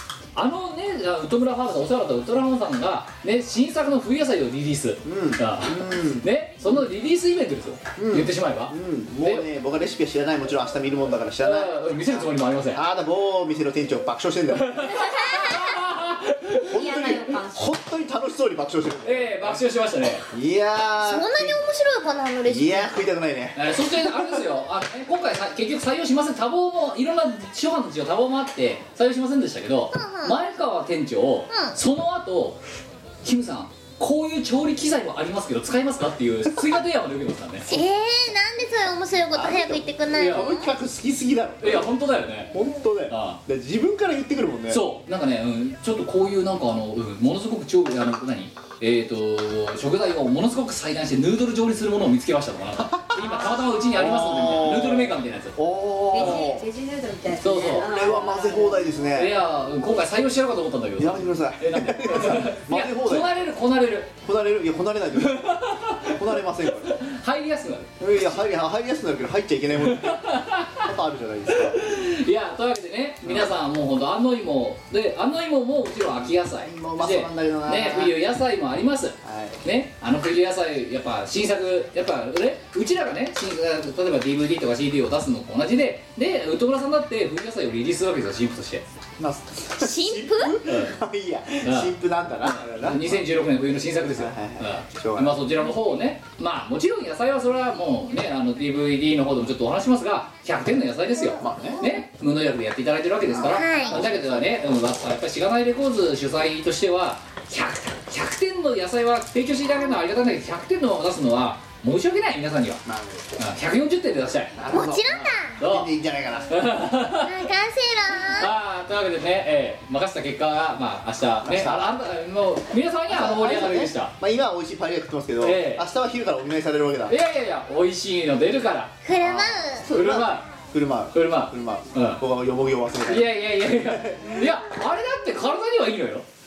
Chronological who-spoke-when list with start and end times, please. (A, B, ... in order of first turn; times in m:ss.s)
0:00.3-0:09.5 A
0:05.0-0:06.3 B
0:08.0-0:11.7 B
0:11.4-0:12.8 A
0:12.7-0:15.1 B
0:14.5-0:16.7 A
0:16.7-0:19.6 B
0:16.7-0:17.7 C
0:19.0-0:20.3 A
0:20.3-0:21.6 B
0:21.0-0:23.0 D
0:22.5-0:24.4 B
0:23.5-0:32.6 A
0:29.9-0:30.4 D
0:31.5-0:31.8 D
0:33.2-0:37.7 A
0:37.7-0:40.7 D
0:39.3-0:41.9 B
0:40.1-0:40.5 A
0:41.6-0:42.5 A
0:42.5-0:44.8 B
0:43.1-0:43.4 A
0:44.7-0:55.6 A
0:52.8-0:53.2 B
0:53.9-0:56.6 B
0:56.1-0:58.9 C
0:57.4-0:57.9 A
0:57.7-0:59.3 B
0:59.1-1:04.1 A
1:01.0-1:03.4 B
1:04.2-1:06.9 B
1:05.1-1:07.9 A
1:08.0-1:11.8 B
1:09.8-1:10.9 A
1:11.5-1:28.8 A
1:16.2-1:18.2 B
1:19.2-1:19.6 B
1:29.2-1:33.3 B
1:29.8-1:30.6 D
1:30.6-1:31.0 A
1:31.6-1:52.8 A
1:34.1-1:35.4 B
1:41.4-1:41.8 B
1:43.3-1:44.6 B
1:43.4-1:44.0 D
1:52.8-1:53.2 B
1:53.4-1:54.5 A
1:54.6-1:56.6 B
1:54.7-1:55.6 D
1:55.6-1:55.9 A
1:56.5-1:57.4 A
1:57.2-1:58.5 D
1:58.4-2:04.1 A
2:01.4-2:01.9 B
2:03.1-2:07.1 B
2:05.4-2:05.8 A
2:07.1-2:08.9 A
2:09.0-2:09.9 D
2:09.2-2:14.4 B
2:09.9-2:10.5 A
2:11.1-2:12.2 A
2:13.0-2:16.2 A